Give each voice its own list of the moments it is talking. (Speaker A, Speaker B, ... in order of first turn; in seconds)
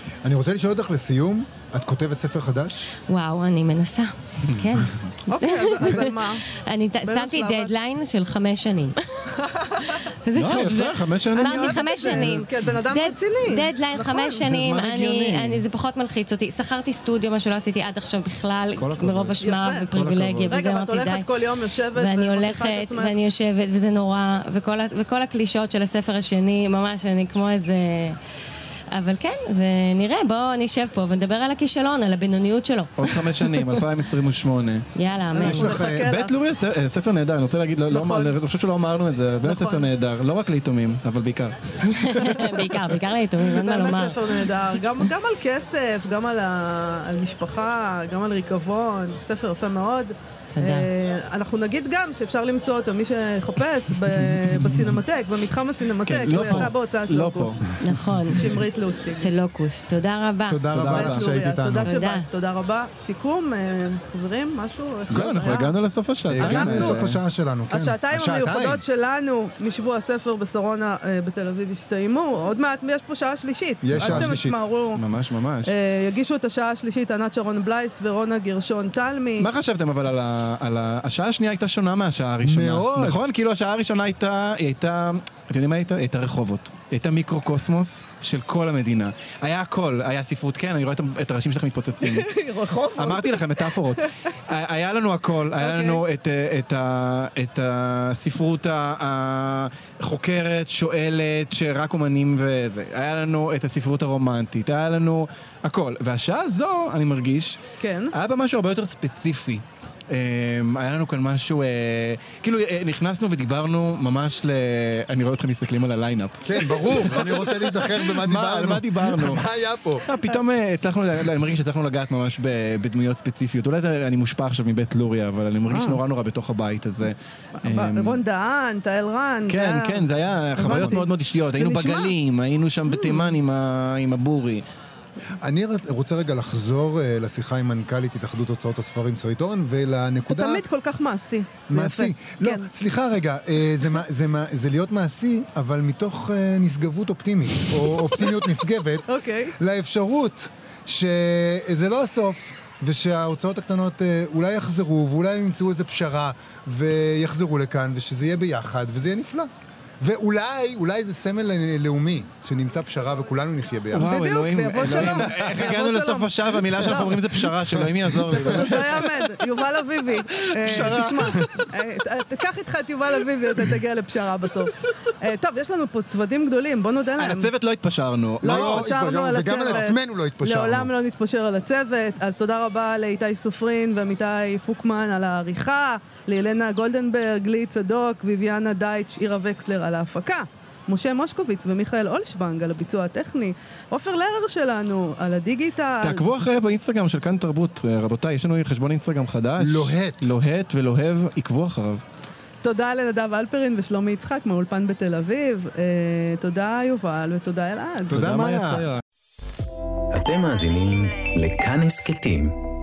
Speaker A: 0.2-2.9, 35.4-36.1, 60.5-62.0, 65.1-65.8, 66.3-68.8, 73.8-74.6, 82.4-83.2, 116.5-120.0, 130.6-131.0, 135.4-140.6, 141.7-159.5, 160.0-164.2, 164.8-165.5, 170.7-171.2, 178.4-180.9, 199.6-200.3, 208.1-208.9
Speaker B: 3.1-21.3, 21.9-28.2, 28.9-33.8, 35.0-35.9, 41.9-44.4, 50.5-50.9, 57.8-58.6, 59.2-60.7, 61.8-62.3
Speaker C: 4.5-5.1, 10.3-12.3, 14.4-15.6, 18.8-19.4, 19.9-20.5, 33.0-34.9, 35.9-42.7, 54.7-54.9, 56.0-58.0, 60.7-61.2, 65.1-67.2, 73.9-75.7, 79.4-92.3, 92.9-107.6, 108.1-119.4, 120.0-128.2, 129.5-134.7, 163.9-169.3, 170.6-171.7, 177.2-179.0, 196.0-202.0, 208.1-209.0
Speaker D: 5.3-6.4, 7.0-7.7, 9.4-10.0, 11.3-14.5, 19.4-19.9, 20.5-23.1, 35.3-36.4, 37.9-38.4, 39.4-39.9, 43.5-57.7, 58.3-59.3, 60.9-65.8, 66.4-67.1, 67.7-75.0, 75.6-79.5, 92.0-94.1, 95.6-96.0, 107.8-108.1, 125.7-126.0, 127.6-132.2, 132.9-133.4, 140.3-142.7, 147.9-148.3, 149.1-149.5, 164.0-177.5, 178.4-196.3, 202.6-208.8
Speaker E: 210.1-212.6